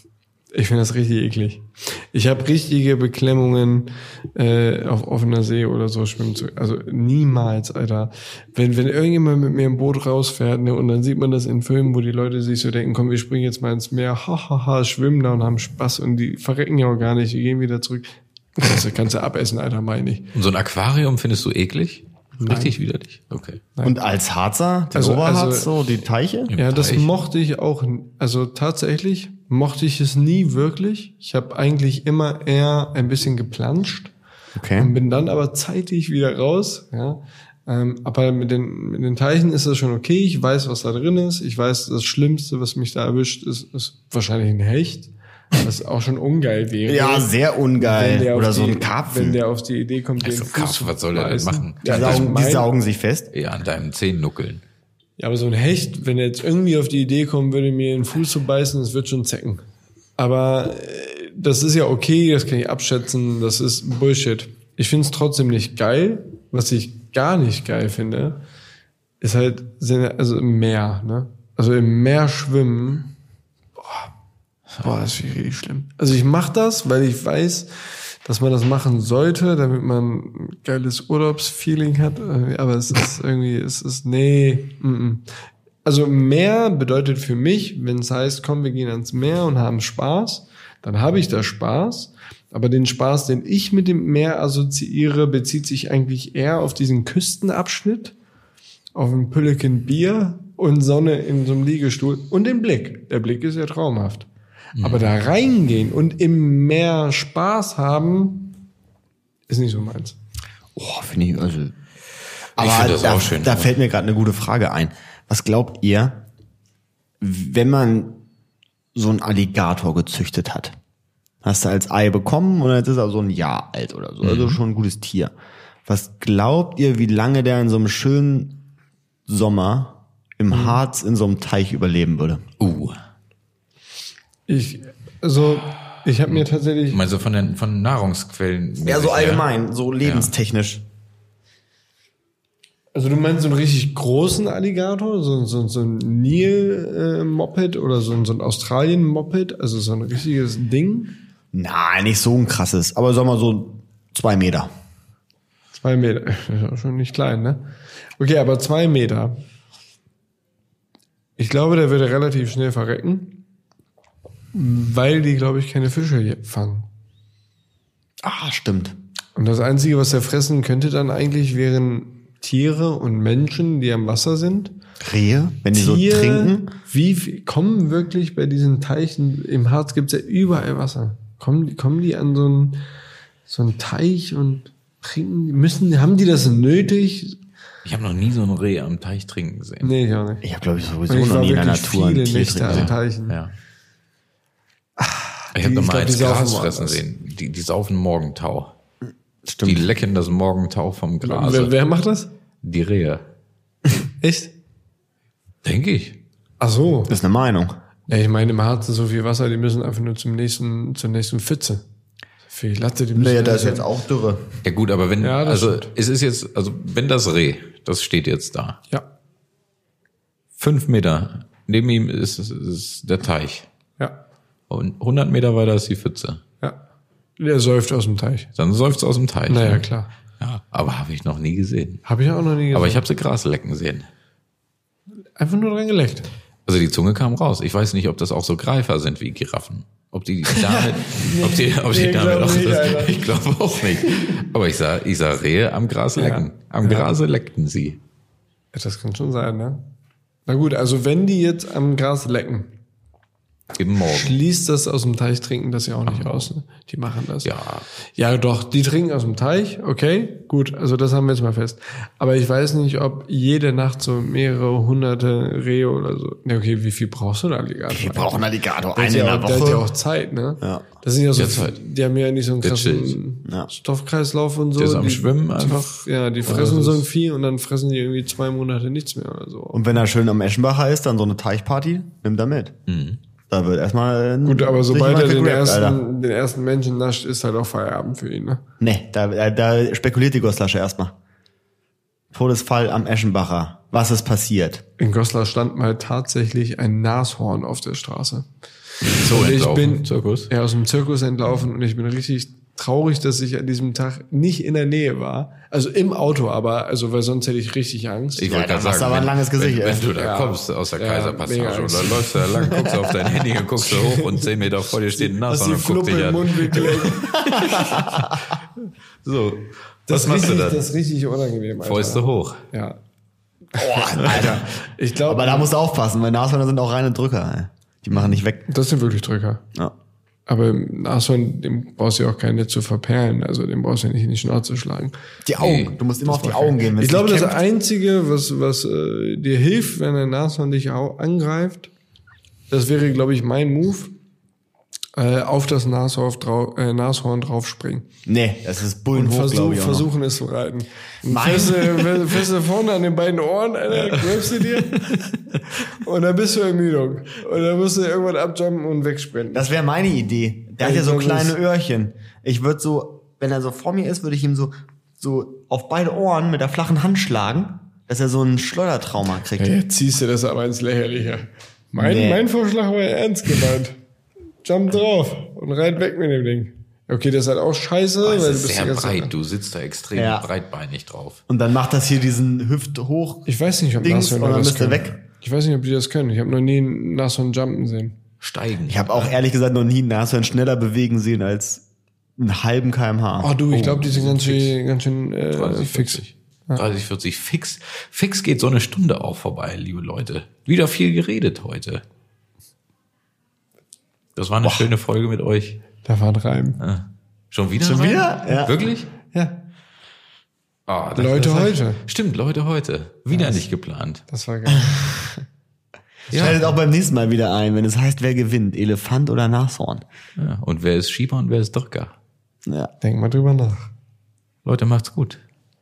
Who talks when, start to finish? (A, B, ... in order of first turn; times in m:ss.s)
0:00.5-0:20.3 A
0:20.3-0:23.6 B
0:22.4-0:22.7 A
0:23.8-0:26.5 C
0:24.9-0:25.7 A
0:26.5-0:27.1 B
0:26.6-0:34.1 A
0:34.6-0:34.9 C
0:34.8-0:52.7 A
0:46.9-0:49.4 C
0:50.2-0:52.3 B
0:51.8-0:53.3 C
0:53.3-0:54.6 B
0:55.2-0:59.6 A
1:00.2-1:08.4 A
1:09.2-1:13.1 A
1:14.8-1:25.2 A
1:25.8-1:38.1 A
1:38.9-1:44.3 A
1:44.8-1:45.1 B
1:44.8-1:48.6 A
1:49.5-1:50.2 A
1:50.8-1:51.7 C
1:52.6-1:56.2 C
1:52.6-1:53.7 B
1:57.2-1:58.2 C
1:58.9-2:00.7 C
2:01.4-2:05.3 C
2:04.2-2:04.6 B
2:05.9-2:08.6 C
2:09.3-2:12.4 C
2:10.5-2:10.8 A
2:12.6-2:13.0 B
2:14.5-2:17.0 A
2:16.3-2:19.5 B
2:18.8-2:20.8 C
2:20.0-2:20.3 B
2:22.9-2:31.1 A
2:31.5-2:34.7 C
2:35.7-2:37.6 A
2:38.2-2:39.4 A
2:41.4-2:43.4 A
2:44.5-2:46.9 A
2:48.2-2:49.0 C
2:49.4-2:54.7 A
2:55.0-2:56.7 C
2:55.7-3:02.8 A
3:03.5-3:07.4 A
3:07.8-3:09.9 B
3:09.8-3:10.4 A
3:10.4-3:12.9 C
3:11.1-3:13.4 A
3:12.7-3:13.5 B
3:15.0-3:17.0 A
3:15.5-3:18.7 B
3:19.4-3:19.9 C
3:19.6-3:21.7 B
3:21.2-3:22.3 A
3:22.6-3:23.2 B
3:24.2-3:24.5 A
3:25.6-3:26.2 B
3:26.6-3:27.1 A
3:27.1-3:27.7 C
3:28.1-3:31.8 A
3:32.4-3:33.9 A
3:33.1-3:34.6 C
3:34.6-3:38.8 B
3:35.2-3:35.9 A
3:40.6-3:43.7 B
3:44.7-3:46.4 B
3:47.4-3:48.5 A
3:48.6-3:49.8 B
3:49.5-3:50.1 A
3:50.4-3:52.0 B
3:52.0-3:53.0 A
3:52.7-3:54.1 B
3:55.4-3:56.3 A
3:56.6-4:08.0 B
4:00.5-4:03.3 A
4:06.2-4:07.1 A
4:08.7-4:09.9 A
4:10.5-4:12.7 A
4:13.7-4:14.4 B
4:14.0-4:17.5 A
4:16.0-4:16.5 B
4:17.4-4:17.8 B
4:18.2-4:39.9 A
4:27.9-4:29.8 C
4:31.4-4:31.8 B
4:32.6-4:33.2 B
4:33.4-4:33.7 C
4:34.8-4:37.1 B
4:39.7-4:42.7 C
4:42.9-4:43.2 B
4:43.5-4:46.0 C
4:44.4-4:48.6 A
4:48.8-4:51.1 C
4:52.3-4:54.8 C
4:55.0-4:58.4 A
4:59.0-5:00.5 B
4:59.0-5:08.5 A
5:08.4-5:18.4 B
5:08.5-5:10.1 C
5:10.1-5:13.0 A
5:14.0-5:14.4 A
5:15.1-5:17.8 A
5:17.2-5:18.4 C
5:19.2-5:20.9 B
5:20.1-5:23.0 A
5:21.8-5:22.6 B
5:23.7-5:28.6 C
5:23.8-5:25.7 A
5:28.1-5:28.4 B
5:28.7-5:29.6 A
5:30.5-5:35.1 A
5:35.4-5:37.6 C
5:35.6-5:36.0 B
5:36.2-5:41.9 A
5:42.7-5:44.1 A
5:45.2-5:48.0 A
5:48.3-5:50.1 C
5:49.1-5:55.2 A
5:51.3-5:52.3 C
5:54.1-5:55.6 B
5:55.8-5:59.7 A
5:59.5-6:09.7 C
6:00.8-6:01.6 A
6:09.6-6:14.0 A
6:12.0-6:12.4 C
6:14.6-6:19.3 A
6:18.2-6:21.4 B
6:20.1-6:20.5 C
6:21.5-6:23.5 C
6:23.4-6:28.2 A
6:24.0-6:25.2 C
6:28.4-6:29.4 B
6:28.9-6:31.8 C
6:32.4-6:33.5 C
6:33.4-6:36.8 A
6:33.7-6:34.8 B
6:35.6-6:42.0 B
6:44.4-6:45.8 B
6:46.0-6:46.8 A
6:46.8-6:49.1 B
6:47.8-6:48.8 C
6:49.3-6:49.6 A
6:50.9-6:54.2 B
6:51.2-6:52.0 A
6:53.3-6:53.6 A
6:54.3-6:55.0 A
6:54.7-6:55.3 C
6:56.3-6:56.7 B
6:56.3-7:00.0 C
7:00.4-7:02.1 B
7:02.6-7:02.9 C
7:03.0-7:03.9 A
7:04.6-7:05.4 B